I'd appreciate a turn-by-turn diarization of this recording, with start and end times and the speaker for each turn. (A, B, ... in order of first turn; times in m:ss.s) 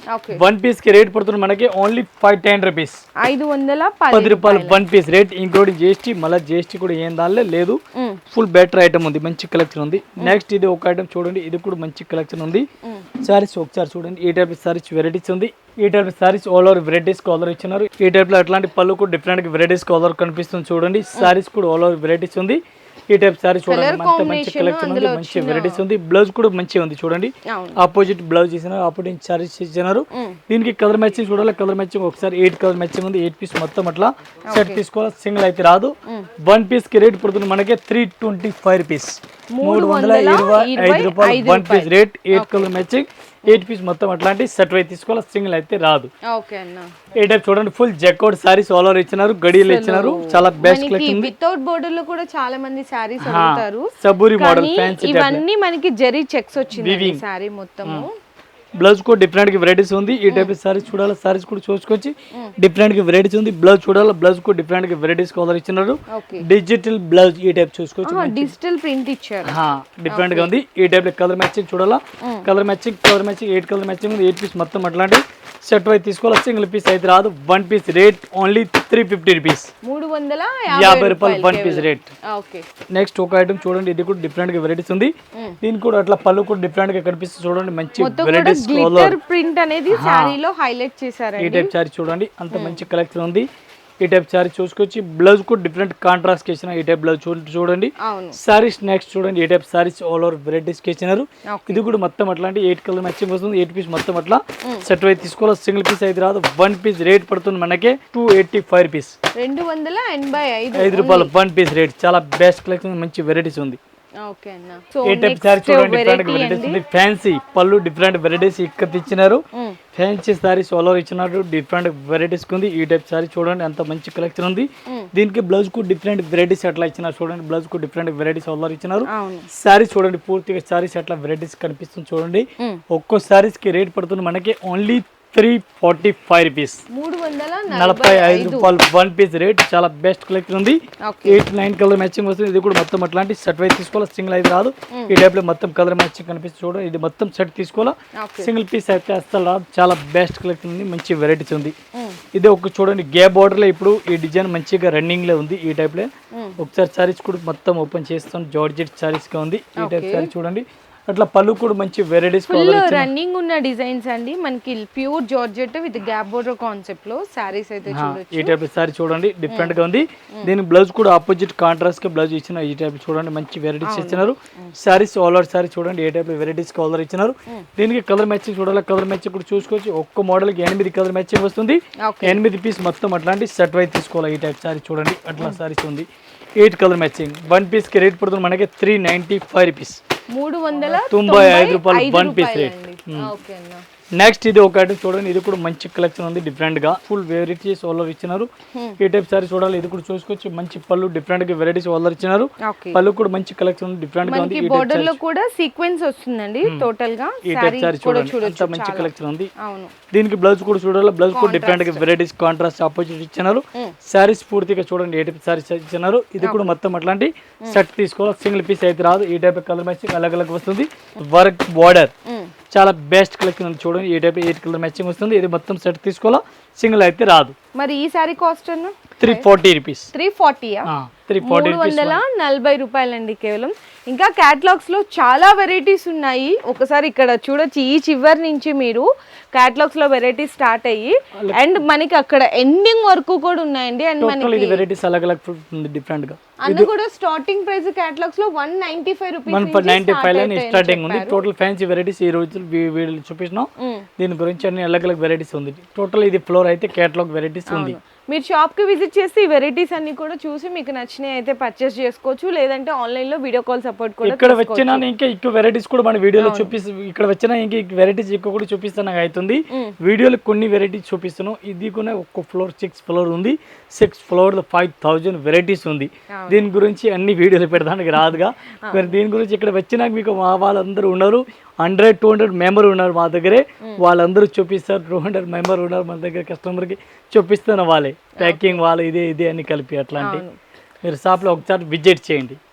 0:00.1-0:00.4 A
0:00.3-0:03.0 B
0:03.2-0:04.8 A
0:04.1-0:07.8 B
0:08.0-0:08.2 A
0:08.3-0:12.6 B
0:13.2-0:35.9 B
0:23.7-0:25.8 A
0:27.5-0:27.8 A
0:34.5-0:34.8 A
0:36.4-0:46.1 B
0:39.5-0:42.7 A
0:46.3-0:46.9 A
0:47.1-0:51.3 B
0:49.5-0:58.1 A
0:53.2-0:55.4 B
0:56.8-0:57.2 B
0:58.8-1:08.5 B
1:06.1-1:06.4 A
1:08.0-1:09.6 A
1:09.4-1:19.7 B
1:10.1-1:10.5 A
1:19.8-1:22.6 A
1:20.7-1:22.1 B
1:22.9-1:29.2 B
1:28.0-1:31.7 A
1:29.9-1:30.4 B
1:31.4-1:33.5 B
1:32.5-1:32.8 A
1:34.0-1:49.2 B
1:38.0-1:38.4 A
1:41.5-1:41.8 A
1:49.4-1:51.3 A
1:50.7-1:53.8 B
1:54.2-1:56.8 A
1:55.0-1:59.4 B
1:59.9-2:16.8 B
2:09.0-2:09.5 A
2:16.9-2:18.7 A
2:17.7-2:31.7 B
2:21.0-2:21.4 A
2:28.2-2:28.5 A
2:32.3-2:43.1 B
2:36.3-2:36.6 A
2:39.8-2:40.3 A
2:42.5-2:48.5 A
2:47.9-3:10.0 B
2:49.5-2:49.8 A
2:53.8-2:54.7 A
3:02.0-3:02.4 A
3:10.3-3:13.8 A
3:10.8-3:13.3 B
3:14.2-3:25.2 B
3:22.6-3:23.0 A
3:24.2-3:29.9 A
3:27.4-3:29.5 B
3:30.1-3:42.1 B
3:31.3-3:32.0 A
3:36.4-3:36.7 A
3:42.3-3:42.5 A
3:42.7-3:47.6 B
3:47.8-3:49.4 A
3:49.2-3:50.1 B
3:50.1-3:50.9 A
3:50.9-3:52.2 B
3:51.4-4:04.8 A
4:01.4-4:01.8 B
4:04.2-4:06.9 B
4:06.6-4:11.4 A
4:09.5-4:18.0 B
4:17.7-4:25.0 A
4:24.2-4:50.4 B
4:26.4-4:26.7 A
4:36.3-4:36.7 A
4:48.4-4:48.8 A
4:50.2-4:50.5 A
4:51.0-4:52.6 B